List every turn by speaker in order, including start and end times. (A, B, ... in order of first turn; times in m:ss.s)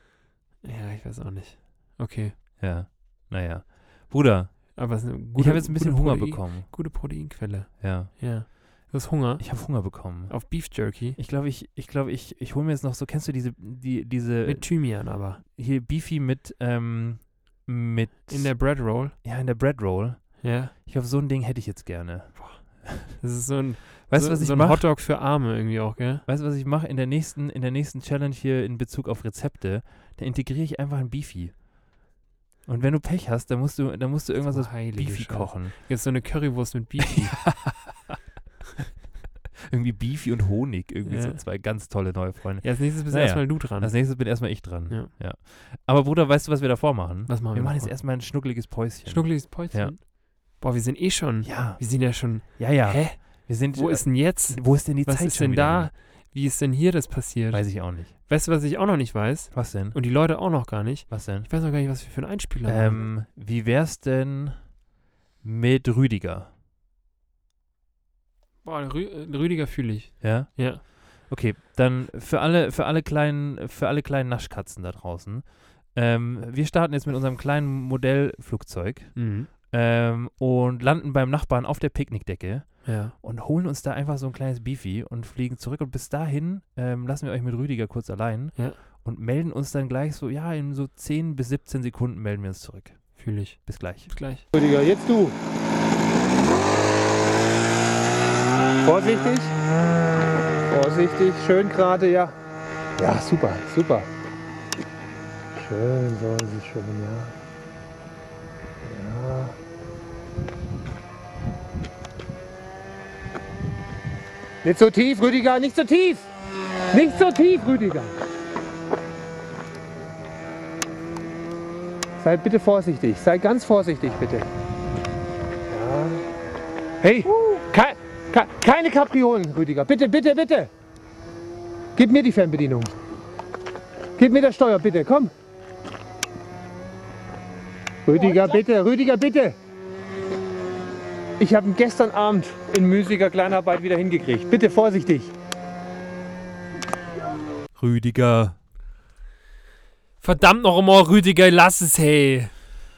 0:00.6-0:02.4 A
0:02.6-0:06.9 B
0:04.7-0:11.2 A
0:07.8-0:08.7 B
0:09.4-0:23.2 B
0:14.4-0:15.4 A
0:18.3-0:19.1 A
0:20.4-0:20.7 A
0:22.4-0:26.2 A
0:24.0-0:24.9 B
0:26.2-0:31.7 B
0:32.6-0:35.8 B
0:34.5-0:37.8 A
0:37.2-0:38.2 B
0:39.7-0:50.0 B
0:41.0-0:41.4 A
0:42.6-0:45.1 A
0:47.3-1:03.1 A
0:51.4-0:55.9 B
0:57.5-0:58.1 B
0:59.5-1:00.0 B
1:01.1-1:01.5 B
1:02.6-1:04.8 B
1:05.4-1:06.5 B
1:08.6-1:10.8 A
1:10.2-1:34.1 B
1:19.2-1:19.5 A
1:22.8-1:23.1 A
1:33.2-1:34.4 A
1:34.5-1:35.3 C
1:38.8-1:39.5 C
1:40.7-1:42.3 C
1:43.0-1:44.1 C
1:45.6-1:47.3 C
1:48.8-1:49.6 C
1:54.6-1:56.2 C
1:56.9-1:58.1 C
2:02.2-2:04.5 C
2:05.7-2:06.2 C
2:07.0-2:10.7 C
2:12.0-2:13.0 C
2:14.2-2:15.3 C
2:18.0-2:19.6 C
2:21.4-2:25.3 C
2:27.7-2:28.6 B
2:30.2-2:32.5 A